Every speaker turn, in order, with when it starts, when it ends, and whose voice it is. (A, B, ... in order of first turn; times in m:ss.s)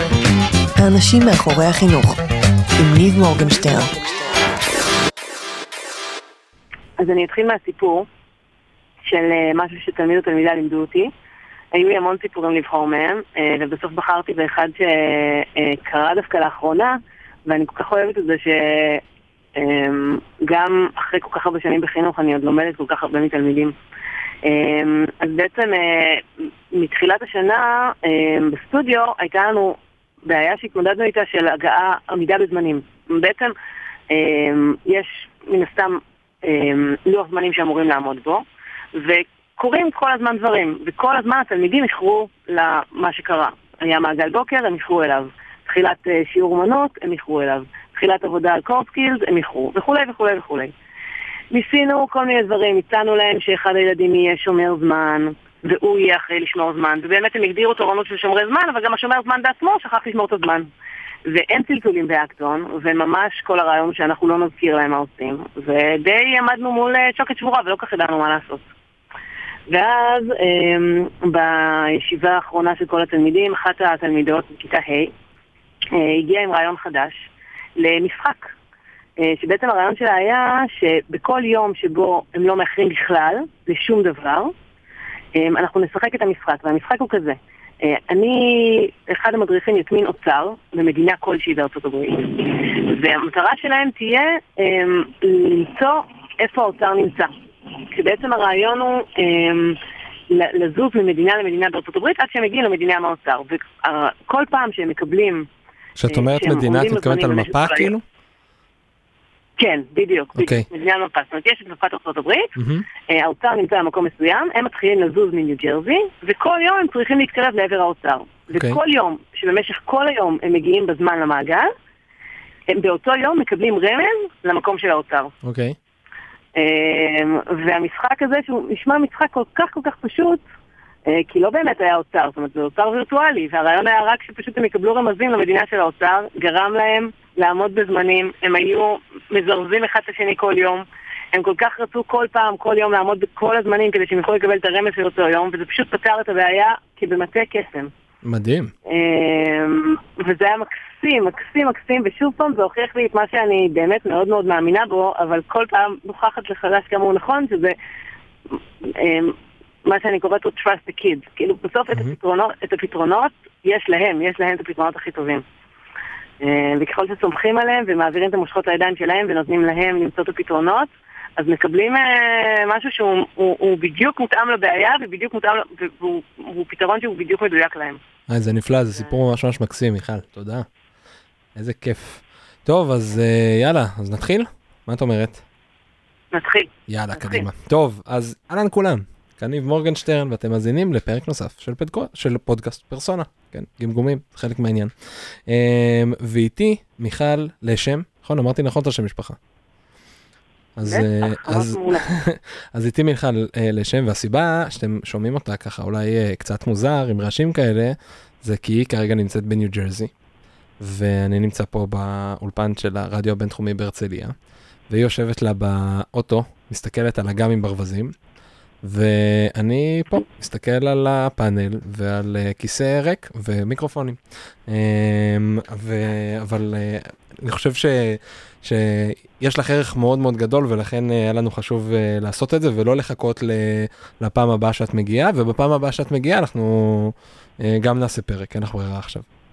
0:00.8-0:02.2 A
0:02.8-0:04.5 A
0:07.0-0:08.1 B
0:09.0-0:11.1 B
0:11.7-0:19.0 B
0:19.5-0:23.8 B
0:24.4-0:33.5 B
0:34.1-0:50.7 B
0:51.5-1:00.7 B
1:01.2-1:08.6 B
1:09.7-1:15.1 B
1:15.9-1:17.2 B
1:17.8-1:18.5 B
1:19.2-1:24.5 B
1:25.3-1:37.3 B
1:37.8-1:39.8 B
1:40.3-1:45.5 B
1:46.0-1:48.0 C
1:46.1-1:47.9 B
1:49.6-1:52.5 B
1:50.4-1:50.6 C
1:52.6-1:52.9 C
1:53.1-2:01.7 B
1:58.5-1:58.8 C
2:02.7-2:05.3 B
2:05.4-2:05.8 C
2:06.5-2:10.4 B
2:11.0-2:27.9 B
2:28.2-2:28.7 C
2:28.8-2:37.7 B
2:38.8-2:45.4 B
2:46.4-2:58.0 B
2:58.3-3:00.6 C
3:01.5-3:05.4 C
3:06.3-3:07.5 B
3:06.9-3:19.4 C
3:20.8-3:30.1 C
3:20.8-3:22.1 B
3:30.8-3:34.3 C
3:34.9-3:38.1 C
3:38.8-3:59.2 C